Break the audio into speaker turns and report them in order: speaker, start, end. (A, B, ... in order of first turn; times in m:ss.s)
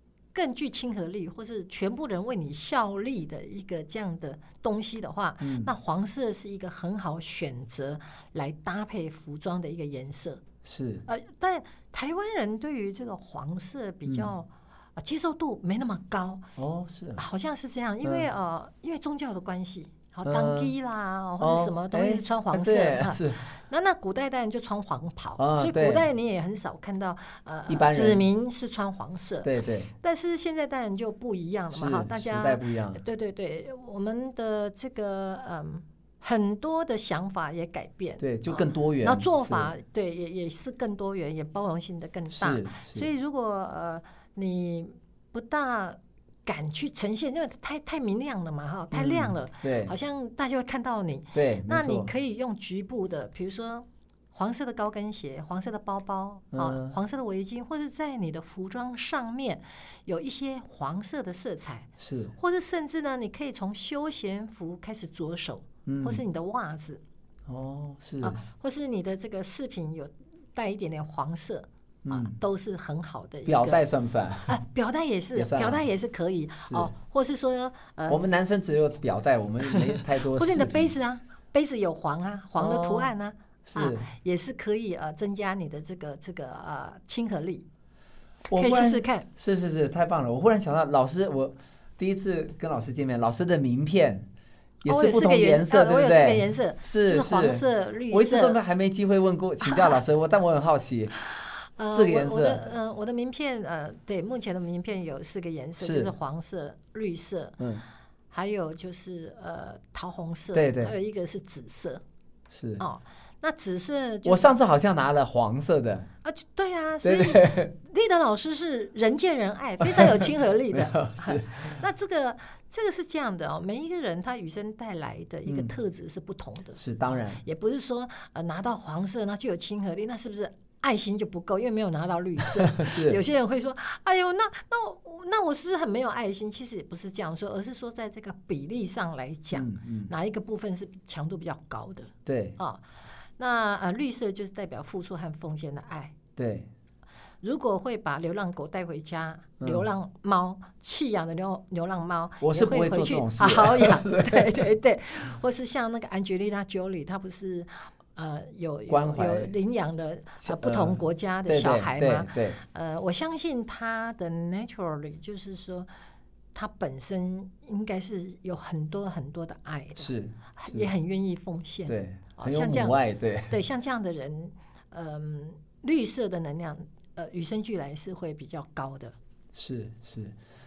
0:00.3-0:10.4 A
0:05.4-0:05.7 B
0:10.6-0:11.0 B
0:11.1-0:16.4 A
0:14.1-0:14.3 B
0:16.6-0:17.2 B
0:17.2-1:07.0 A
0:18.0-0:18.3 B
0:20.2-0:20.7 B
0:21.4-0:23.4 B
0:25.4-0:26.1 B
0:27.7-0:28.2 B
0:29.4-0:29.9 B
0:31.7-0:33.0 B
0:38.2-0:39.7 B
0:42.3-0:43.1 B
0:48.9-0:50.0 B
0:51.3-0:52.1 B
0:56.5-0:57.0 B
1:02.0-1:02.4 B
1:05.9-1:06.2 B
1:07.5-1:08.4 B
1:08.2-1:13.8 A
1:12.0-1:12.4 B
1:13.5-1:14.6 B
1:14.5-1:18.3 A
1:15.4-1:15.8 B
1:16.6-1:16.9 B
1:18.1-1:20.9 B
1:19.6-1:27.7 A
1:22.6-1:23.1 B
1:23.6-1:24.1 B
1:28.5-1:34.3 B
1:28.6-1:29.3 A
1:34.8-1:41.1 B
1:34.9-1:38.6 A
1:39.6-1:40.0 A
1:41.2-1:47.6 A
1:41.9-1:42.6 B
1:45.8-1:46.1 B
1:47.6-1:47.8 B
1:48.3-1:52.0 A
1:50.5-1:51.0 B
1:52.5-1:52.8 B
1:52.8-1:54.5 A
1:54.2-1:56.1 B
1:56.2-2:22.8 A
1:57.0-1:57.7 B
1:59.8-2:00.1 B
2:00.7-2:01.8 B
2:05.5-2:05.7 B
2:06.8-2:07.4 B
2:12.5-2:13.2 B
2:19.5-2:20.1 B
2:22.3-2:22.6 B
2:23.4-2:26.2 A
2:26.4-2:26.7 B
2:27.4-2:45.9 A
2:29.6-2:29.9 B
2:32.4-2:34.7 B
2:38.9-2:39.5 B
2:40.4-2:42.6 B
2:46.5-2:59.2 A
2:50.0-2:50.9 B
2:51.9-2:53.6 B
2:59.5-3:00.3 B